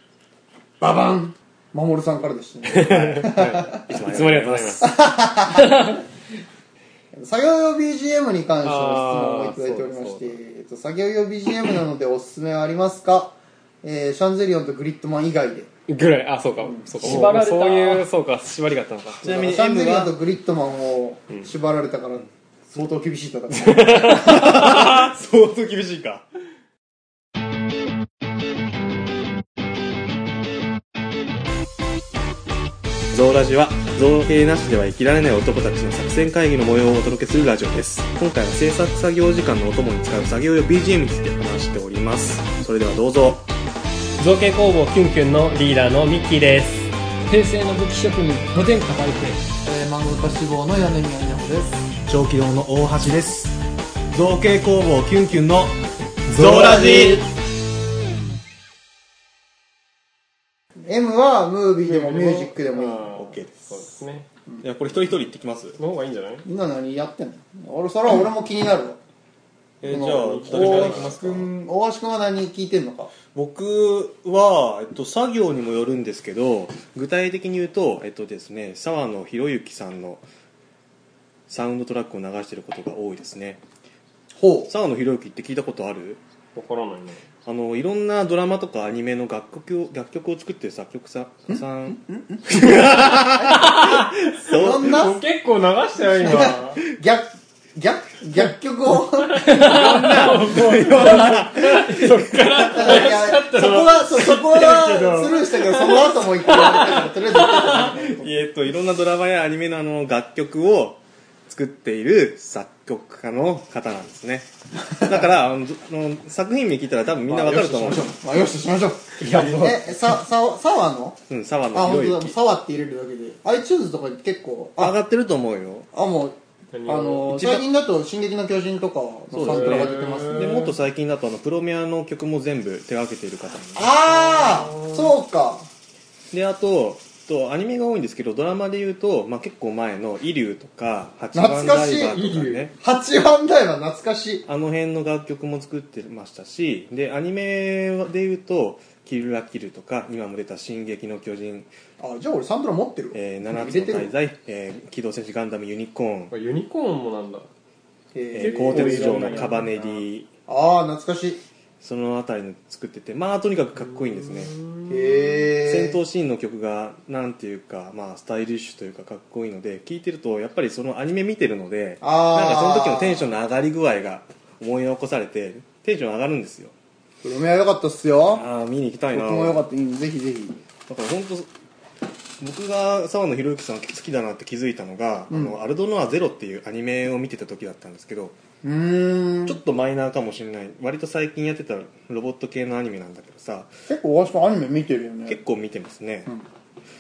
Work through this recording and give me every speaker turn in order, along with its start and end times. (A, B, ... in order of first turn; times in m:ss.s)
0:00.8-0:03.8 A
0:02.6-0:04.9 B
0:02.8-0:05.0 C
0:04.8-0:06.0 A
0:07.2-0:15.7 A
0:08.6-0:10.4 B
0:15.9-0:19.5 B
0:16.6-0:17.2 A
0:17.0-0:18.1 D
0:19.2-0:20.2 C
0:19.3-0:24.7 A
0:23.5-0:24.8 B
0:24.1-0:26.3 C
0:33.1-0:43.5 C
0:44.2-0:46.9 B
0:47.3-0:49.4 D
0:49.6-0:51.9 A
0:52.0-0:53.6 C
0:54.1-0:57.3 C
0:56.3-0:57.2 A
1:00.8-1:03.1 A
1:01.8-1:04.3 B
1:03.0-1:04.0 C
1:04.6-1:05.8 C
1:05.8-1:06.5 B
1:06.4-1:09.0 A
1:09.8-1:11.5 C
1:09.8-1:11.2 B
1:09.9-1:13.1 A
1:13.3-1:20.2 C
1:21.5-1:23.6 C
1:24.4-1:24.7 A
1:24.7-1:26.2 C
1:26.5-1:27.2 B
1:27.4-1:35.1 C
1:32.1-1:32.4 A
1:33.4-1:33.8 A
1:33.6-1:36.8 B
1:34.5-1:35.2 A
1:36.2-1:40.0 A
1:39.4-1:42.8 D
1:39.5-1:42.7 C
1:39.5-1:48.1 B
1:42.7-1:48.3 A
1:48.2-1:58.1 C
1:57.3-2:01.2 A
1:59.2-2:00.1 D
1:59.3-1:59.6 B
2:01.3-2:02.3 C
2:01.7-2:05.0 A
2:01.8-2:02.2 B
2:04.8-2:05.9 C
2:05.9-2:10.7 A
2:06.7-2:07.6 B
2:09.3-2:13.9 C
2:09.4-2:10.7 B
2:13.8-2:15.7 A
2:14.3-2:15.1 B
2:16.3-2:22.7 C
2:21.3-2:22.2 A
2:22.1-2:22.7 B
2:22.8-2:24.4 A
2:24.5-2:31.7 C
2:32.0-2:34.1 A
2:33.1-2:36.3 C
2:36.3-2:37.5 B
2:38.1-2:39.4 A
2:38.4-2:40.3 C
2:38.4-2:39.7 D
2:40.5-2:41.4 A
2:41.8-2:44.7 C
2:44.2-2:45.2 B
2:44.9-2:46.0 A
2:45.5-2:56.7 C
2:52.0-2:53.3 A
2:57.2-2:58.5 A
2:58.3-2:59.6 C
2:59.1-3:00.6 A
3:00.9-3:01.5 C
3:02.4-3:08.4 C
3:05.3-3:05.6 A
3:08.6-3:09.6 A
3:09.5-3:13.8 C
3:13.9-3:15.4 A
3:15.3-3:16.3 C